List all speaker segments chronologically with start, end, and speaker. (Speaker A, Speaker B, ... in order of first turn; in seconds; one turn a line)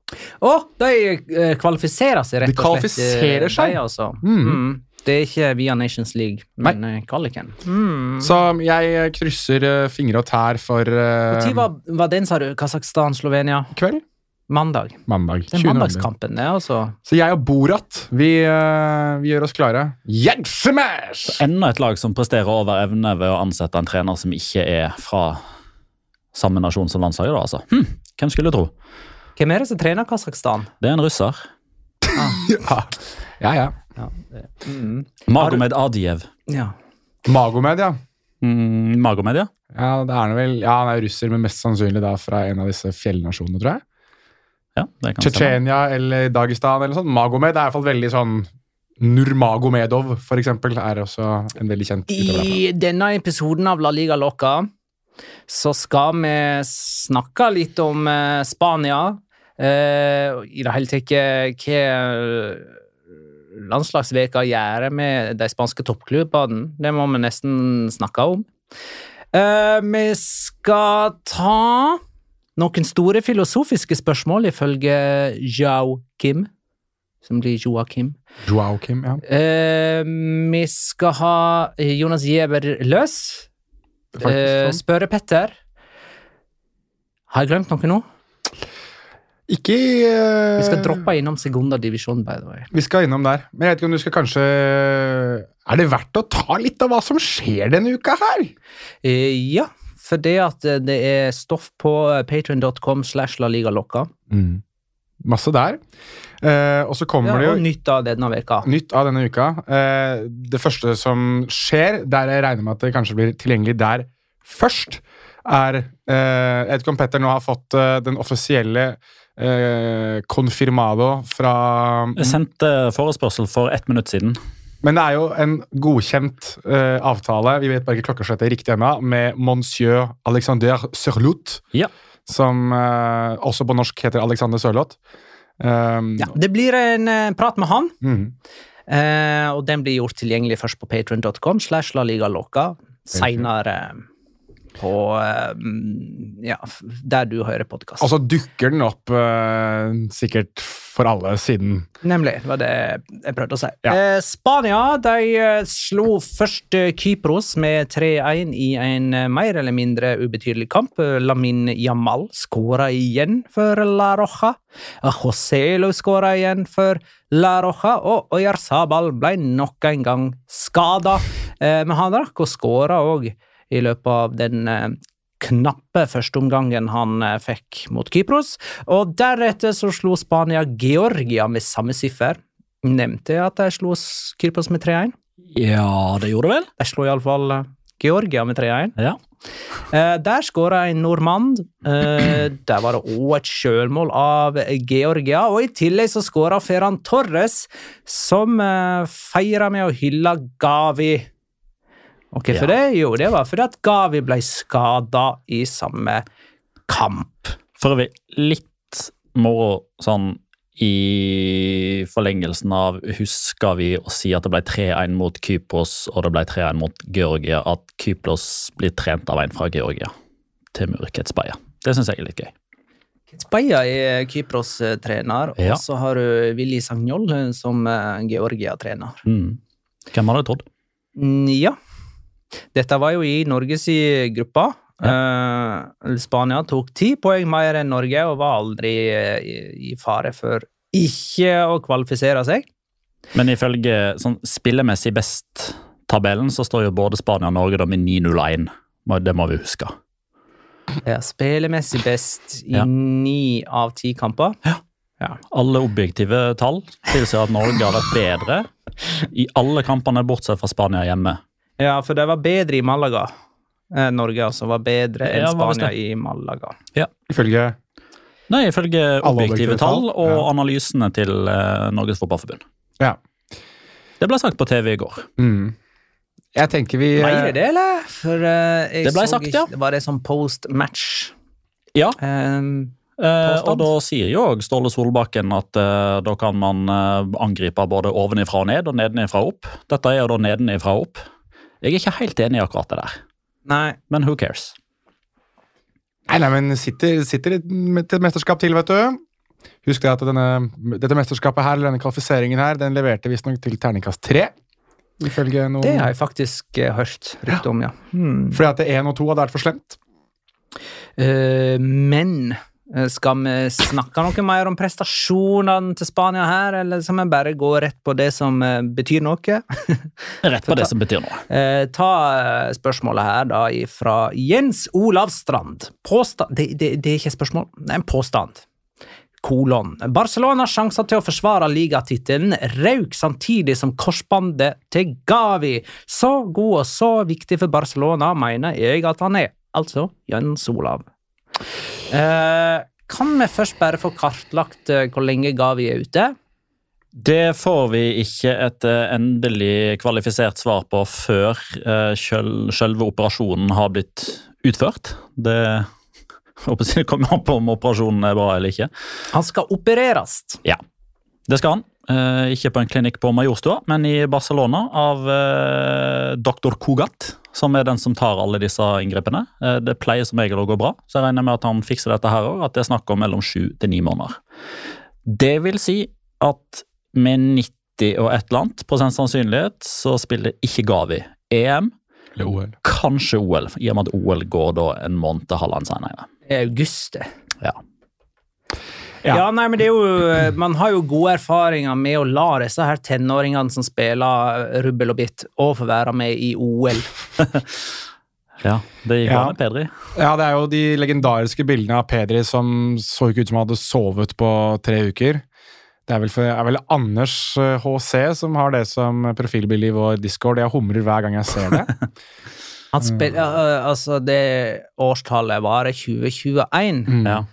Speaker A: 0.4-8.3
Speaker B: 2.4-4.6
Speaker B: 8.2-11.7
Speaker A: 11.3-13.7
Speaker B: 13.7-14.0
Speaker A: 14.5-16.9
Speaker B: 15.1-16.1
Speaker B: 17.1-21.4
Speaker C: 21.3-25.4
Speaker C: 26.3-28.7
Speaker A: 29.4-30.7
Speaker C: 30.8-31.4
Speaker B: 32.1-33.8
Speaker A: 34.0-35.6
Speaker C: 35.3-36.3
Speaker A: 36.5-36.7
Speaker B: 37.2-38.0
Speaker C: 38.4-39.5
Speaker B: 39.8-43.8
Speaker C: 44.8-45.6
Speaker B: 45.2-48.5
Speaker B: 49.0-52.6
Speaker A: 52.1-54.7
Speaker A: 55.5-62.7
Speaker A: 63.5-68.5
Speaker A: 69.3-72.0
Speaker A: 72.6-76.5
Speaker A: 77.2-78.2
Speaker B: 78.4-79.2
Speaker A: 79.2-83.5
Speaker B: 84.2-84.8
Speaker A: 84.2-85.5
Speaker A: 87.3-88.0
Speaker B: 89.5-91.0
Speaker A: 90.6-92.7
Speaker B: 92.7-98.5
Speaker A: 99.0-104.1
Speaker B: 104.3-104.6
Speaker B: 105.2-105.8
Speaker B: 106.4-107.6
Speaker A: 107.2-108.7
Speaker B: 108.6-122.4
Speaker C: 122.2-124.4
Speaker B: 124.8-131.6
Speaker B: 132.3-135.0
Speaker B: 135.6-136.3
Speaker A: 136.2-137.9
Speaker B: 138.0-138.3
Speaker A: 138.9-144.0
Speaker B: 143.2-143.5
Speaker A: 144.8-148.1
Speaker B: 148.0-151.9
Speaker A: 152.0-185.1
Speaker C: 185.5-186.7
Speaker A: 186.8-189.0
Speaker A: 189.9-201.3
Speaker A: 202.3-206.2
Speaker A: 206.9-207.6
Speaker C: 207.8-220.1
Speaker C: 220.7-222.5
Speaker A: 223.3-229.2
Speaker C: 229.2-229.6
Speaker C: 230.1-230.6
Speaker A: 231.2-231.8
Speaker A: 232.7-242.7
Speaker C: 243.3-249.9
Speaker A: 251.1-254.6
Speaker C: 255.5-258.7
Speaker C: 259.2-261.4
Speaker A: 261.8-263.3
Speaker A: 263.9-266.8
Speaker C: 265.3-265.9
Speaker B: 267.3-267.8
Speaker C: 268.5-272.6
Speaker B: 269.2-270.5
Speaker C: 274.2-275.3
Speaker B: 275.4-275.8
Speaker B: 276.6-277.5
Speaker A: 277.2-281.3
Speaker C: 279.0-279.7
Speaker A: 282.2-283.9
Speaker C: 283.2-291.2
Speaker C: 291.8-293.2
Speaker A: 293.7-294.0
Speaker C: 294.1-294.7
Speaker B: 296.3-299.2
Speaker B: 299.9-304.5
Speaker B: 305.2-306.1
Speaker A: 305.8-308.6
Speaker B: 308.5-310.0
Speaker A: 311.2-320.1
Speaker C: 320.4-321.4
Speaker A: 321.5-328.6
Speaker A: 329.4-341.0
Speaker A: 342.1-346.4
Speaker C: 347.2-355.9
Speaker C: 356.6-358.9
Speaker A: 359.3-360.6
Speaker C: 361.5-374.4
Speaker C: 375.3-381.9
Speaker B: 382.4-382.8
Speaker C: 382.8-386.3
Speaker A: 386.5-387.3
Speaker A: 389.3-397.1
Speaker C: 398.6-399.9
Speaker B: 399.2-399.6
Speaker B: 400.1-405.4
Speaker B: 406.1-411.9
Speaker A: 412.9-417.2
Speaker B: 417.1-417.4